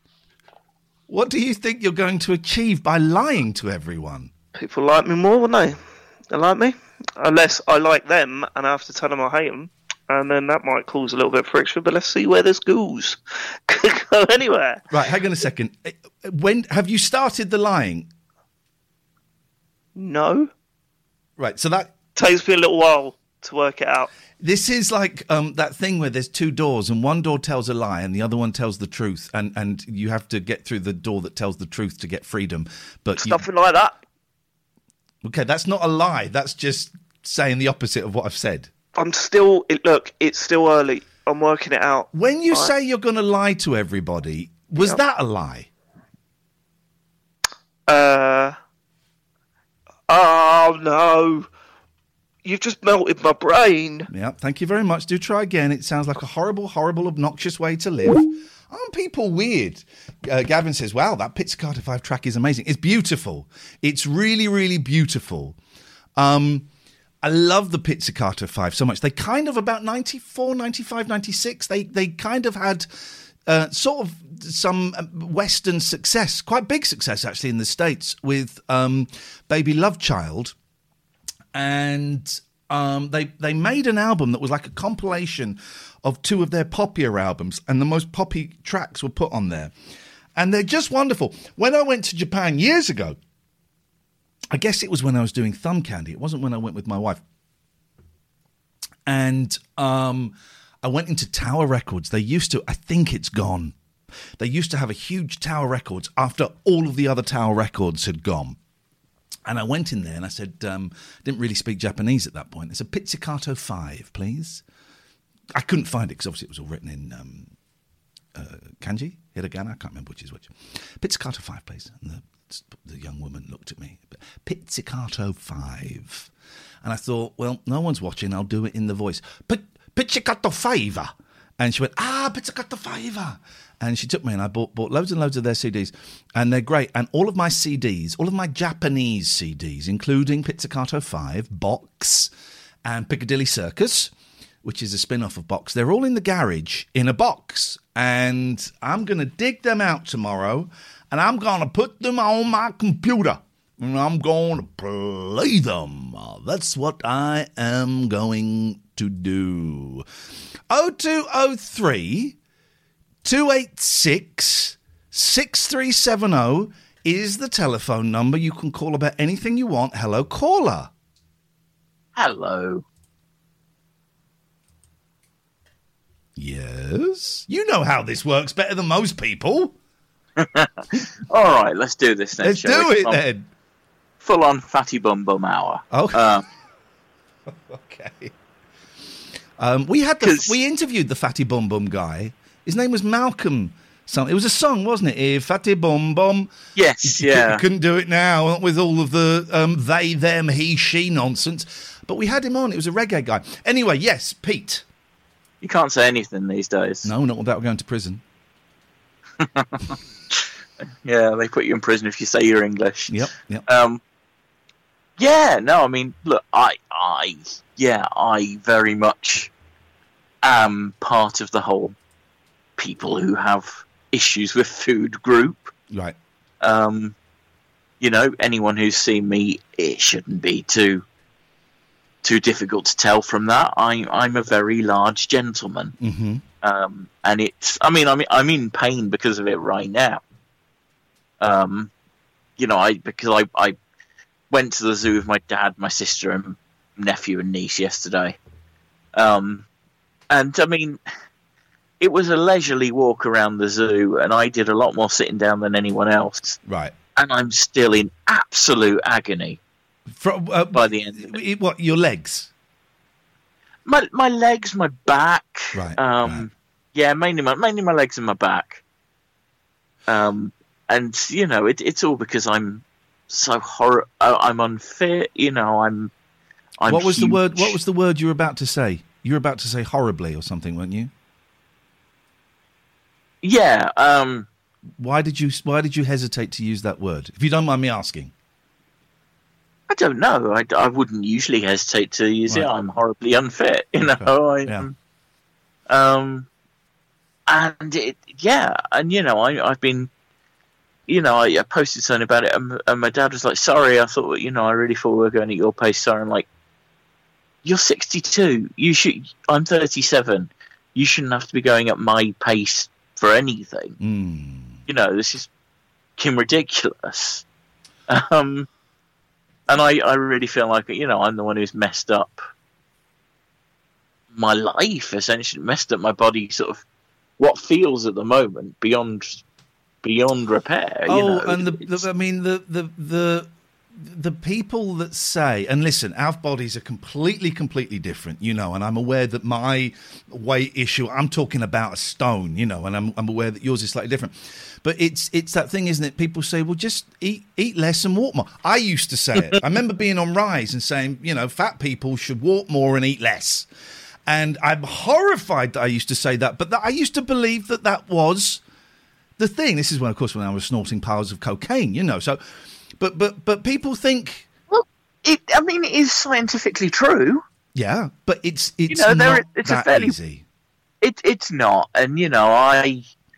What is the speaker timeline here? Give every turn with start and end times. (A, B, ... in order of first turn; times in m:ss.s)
0:01.1-0:04.3 A
0:04.6-0:14.8 B
0:14.9-0:18.1 A
0:20.0-0:20.5 B
0:21.4-0:21.9 A
0:22.1-0:24.1 B
0:24.4-0:33.4 A
0:33.2-0:34.0 B
0:35.2-0:38.7 A
0:39.0-0:42.7 B
0:42.1-0:45.7 A
0:47.9-0:48.6 B
0:50.1-0:51.5 B
0:52.4-0:54.1 B
0:54.1-1:05.6 A
1:06.2-1:06.7 A
1:07.2-1:20.6 A
1:21.5-1:29.7 A
1:30.4-1:33.2 A
1:34.5-1:37.2 A
1:39.0-1:43.7 A
1:44.4-1:48.6 A
1:49.4-1:54.6 A
1:55.6-1:57.5 A
1:58.3-2:06.3 A
2:06.8-2:22.3 A
2:22.8-2:24.1 A
2:24.6-2:40.0 A
2:40.7-2:42.4 A
2:43.2-2:50.9 A
2:52.1-2:52.8 C
2:56.4-2:59.7 A
3:00.4-3:00.7 C
3:01.3-3:03.2 C
3:02.4-3:03.5 A
3:04.2-3:06.4 C
3:05.9-3:06.4 A
3:07.5-3:08.3 A
3:09.6-3:24.8 A
3:10.2-3:10.6 C
3:16.8-3:17.6 C
3:25.6-3:27.1 C
3:27.0-3:28.2 A
3:29.4-3:30.4 C
3:31.0-3:34.0 C
3:33.1-3:33.6 A
3:35.2-3:39.5 C
3:40.4-3:42.0 C
3:42.8-3:45.7 C
3:45.9-3:46.2 A
3:46.6-3:47.1 C
3:48.0-3:51.0 C
3:52.2-3:55.9 C
3:56.0-3:56.4 A
3:56.6-4:00.2 C
4:01.4-4:01.9 C
4:02.6-4:03.8 C
4:04.5-4:08.4 C
4:09.1-4:09.6 C
4:10.3-4:11.0 C
4:12.0-4:16.6 C
4:16.6-4:16.9 A
4:17.2-4:19.6 C
4:20.1-4:22.5 A
4:20.7-4:21.4 C
4:23.8-4:28.8 C
4:25.7-4:26.5 A
4:30.0-4:36.1 C
4:36.8-4:37.8 C
4:36.9-4:41.1 A
4:43.4-4:44.5 C
4:45.0-4:48.3 A
4:49.9-4:54.9 C
4:52.5-4:52.8 A
4:54.0-4:54.9 A
4:55.9-4:56.5 C
4:57.5-5:00.1 C
5:01.1-5:06.5 C
5:07.6-5:14.0 C
5:14.0-5:14.8 A
5:14.9-5:15.5 C
5:16.2-5:17.4 C
5:18.1-5:18.7 C
5:19.7-5:22.4 C
5:24.3-5:26.8 C
5:27.4-5:29.4 C
5:30.0-5:32.0 C
5:31.1-5:53.7 A
5:54.2-5:58.6 A
5:59.4-6:02.4 A
6:03.0-6:04.5 A
6:04.7-6:07.4 C
6:07.7-6:10.4 A
6:08.9-6:10.2 C
6:11.0-6:13.0 C